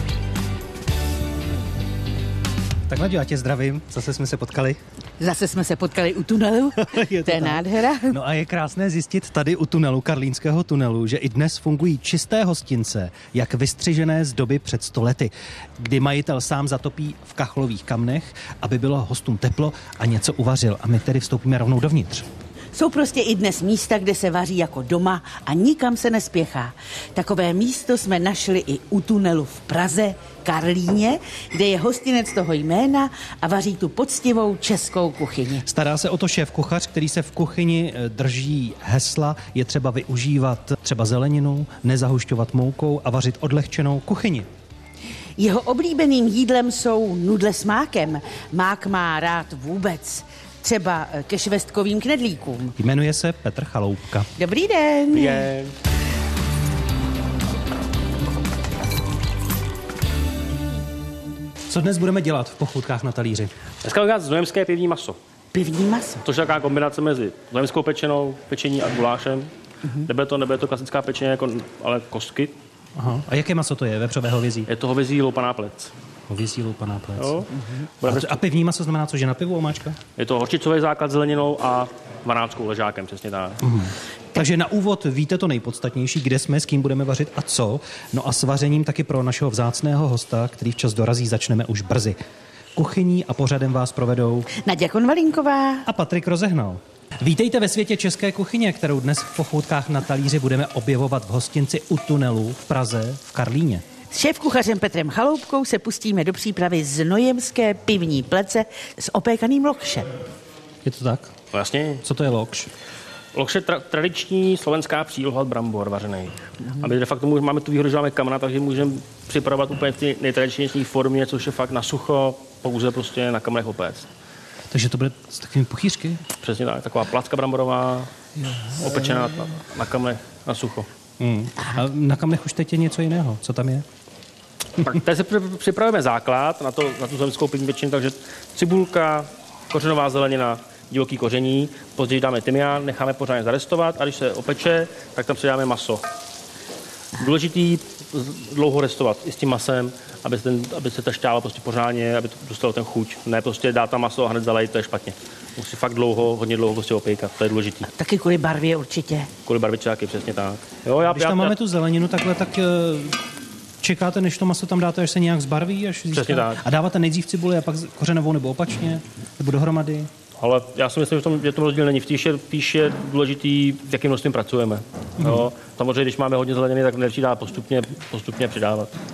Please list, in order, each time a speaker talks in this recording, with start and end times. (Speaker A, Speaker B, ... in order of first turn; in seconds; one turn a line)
Speaker A: 2.9-4.8
Speaker B: 5.2-8.2
Speaker A: 6.8-22.3
Speaker B: 22.7-35.7
Speaker A: 35.7-44.5
Speaker B: 45.4-52.8
Speaker A: 52.8-54.3
Speaker B: 54.4-55.5
Speaker C: 55.1-55.7
Speaker A: 61.7-63.5
Speaker C: 63.8-65.2
Speaker B: 65.5-66.2
Speaker C: 66.2-69.5
Speaker C: 70.0-72.6
Speaker A: 73.0-74.7
Speaker C: 74.7-75.9
Speaker A: 76.3-77.5
Speaker C: 77.2-77.5
Speaker C: 78.0-78.4
Speaker A: 78.0-80.0
Speaker C: 80.2-83.6
Speaker A: 83.6-92.2
Speaker A: 92.8-94.5
Speaker B: 94.5-95.9
Speaker A: 95.8-103.8
Speaker B: 104.1-110.2
Speaker A: 110.8-111.3
Speaker C: 111.5-112.0
Speaker A: 112.0-112.7
Speaker C: 113.3-124.1
Speaker A: 124.7-126.2
Speaker C: 126.4-128.1
Speaker C: 128.7-130.9
Speaker A: 131.2-133.8
Speaker C: 134.8-146.0
Speaker C: 147.2-157.9
Speaker B: 157.9-159.3
Speaker C: 159.5-161.6
Speaker A: 161.0-170.1
Speaker C: 166.1-166.6
Speaker C: 170.4-179.0
Speaker A: 175.2-175.5